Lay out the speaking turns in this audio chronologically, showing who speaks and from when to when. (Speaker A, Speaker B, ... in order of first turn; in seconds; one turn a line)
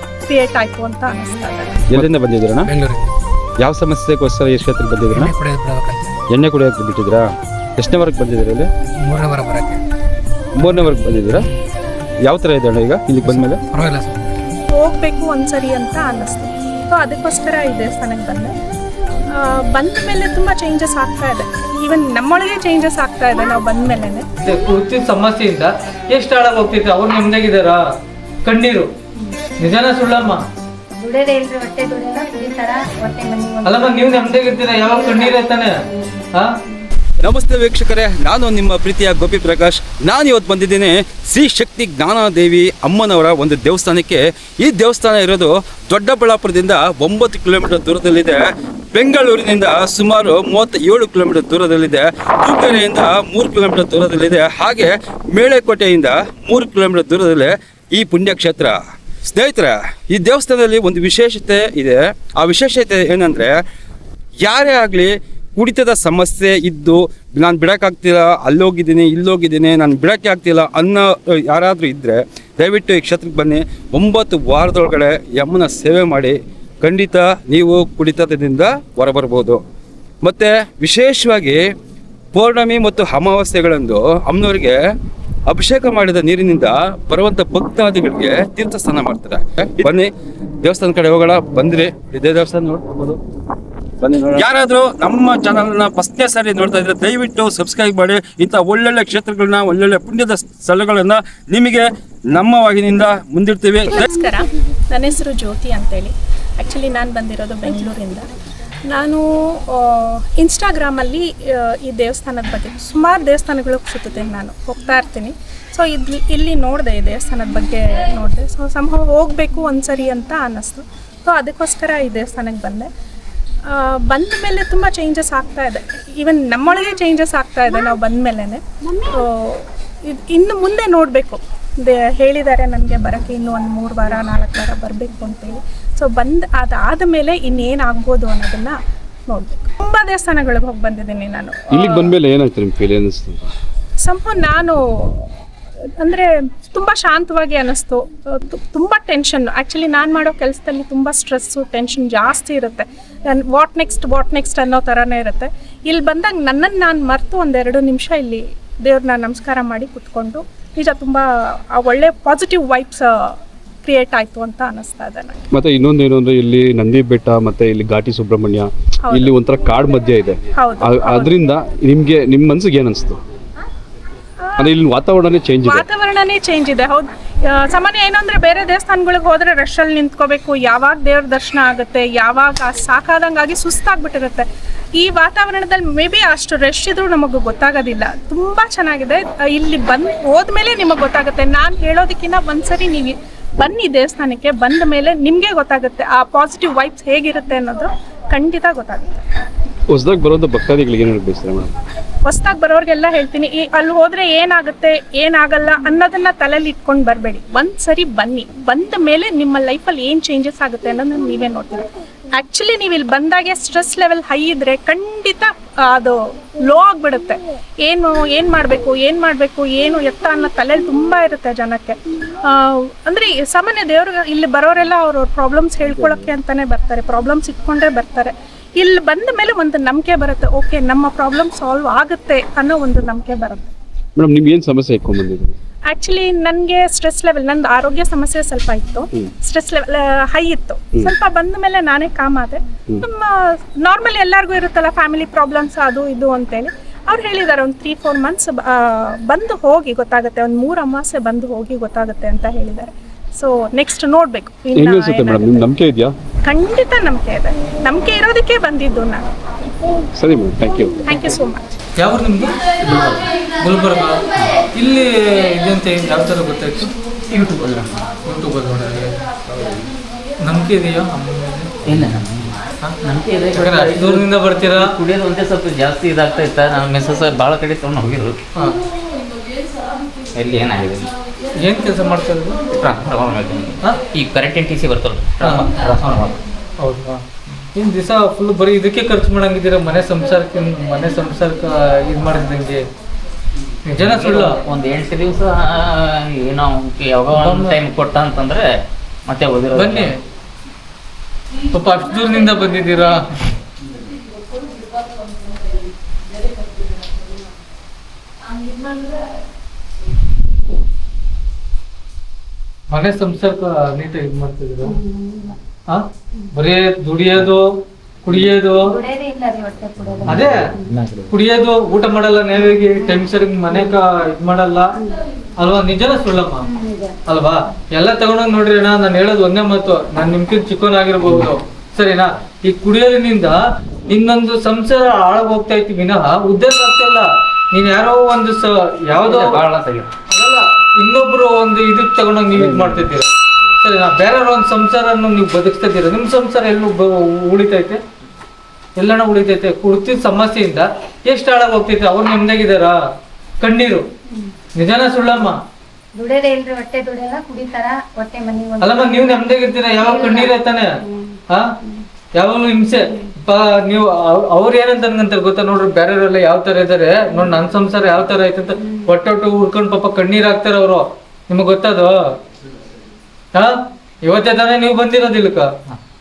Speaker A: 0.3-1.7
Speaker B: 1.9-2.7
Speaker C: 2.6-3.1
Speaker B: 3.6-5.3
Speaker C: 5.1-6.1
Speaker B: 6.3-7.2
Speaker B: 7.8-8.7
Speaker C: 9.0-9.8
Speaker B: 10.6-11.4
Speaker B: 12.2-13.6
Speaker C: 13.2-14.5
Speaker A: 14.7-18.5
Speaker A: 19.3-24.3
Speaker D: 24.4-27.8
Speaker D: 28.4-28.9
Speaker D: 29.6-30.4
Speaker E: 30.9-36.8
Speaker D: 33.6-35.7
Speaker B: 37.2-48.4
Speaker B: 48.9-63.5
Speaker B: 64.4-79.6
Speaker B: 80.2-81.6
Speaker B: 82.3-84.8
Speaker B: 85.5-90.1
Speaker B: 90.6-93.2
Speaker B: 94.0-104.1
Speaker A: 103.9-108.2
Speaker A: 108.9-122.9
Speaker A: 123.7-138.8
Speaker A: 139.3-142.1
Speaker F: 141.7-143.5
Speaker A: 144.0-145.3
Speaker A: 146.0-165.4
Speaker F: 165.5-173.2
Speaker A: 169.0-169.3
Speaker A: 170.6-171.3
Speaker A: 174.4-174.7
Speaker F: 174.6-175.8
Speaker A: 175.6-184.4
Speaker A: 185.0-199.2
Speaker F: 199.9-201.7
Speaker A: 202.2-233.7
Speaker F: 234.2-235.5
Speaker A: 235.9-255.7
Speaker F: 254.7-256.1
Speaker A: 256.4-259.2
Speaker F: 260.1-261.1
Speaker A: 261.0-261.6
Speaker D: 262.0-262.7
Speaker G: 262.8-263.3
Speaker D: 263.6-266.9
Speaker G: 267.3-268.1
Speaker D: 268.2-269.2
Speaker D: 270.4-271.7
Speaker G: 271.8-278.4
Speaker D: 273.5-274.9
Speaker G: 280.3-281.1
Speaker D: 281.5-282.6
Speaker G: 282.7-286.3
Speaker D: 285.4-287.2
Speaker D: 287.7-292.8
Speaker D: 293.9-294.6
Speaker G: 293.9-298.7
Speaker D: 297.3-297.8
Speaker G: 299.2-300.1
Speaker D: 299.7-300.1
Speaker D: 301.7-303.5
Speaker D: 312.9-314.9
Speaker E: 314.8-315.6
Speaker D: 316.6-318.9
Speaker E: 318.8-321.1
Speaker D: 320.3-324.9
Speaker E: 322.8-323.9
Speaker D: 325.6-326.6
Speaker E: 326.6-327.2
Speaker D: 327.3-339.6
Speaker G: 339.2-340.1
Speaker D: 340.3-343.3
Speaker B: 342.5-343.1
Speaker D: 343.8-348.0
Speaker D: 349.0-352.9
Speaker D: 353.6-354.0
Speaker D: 354.7-355.6
Speaker E: 356.2-359.4
Speaker D: 358.8-360.9
Speaker E: 359.9-362.0
Speaker D: 362.3-372.1
Speaker E: 363.0-363.3
Speaker E: 368.8-369.1
Speaker D: 373.5-375.7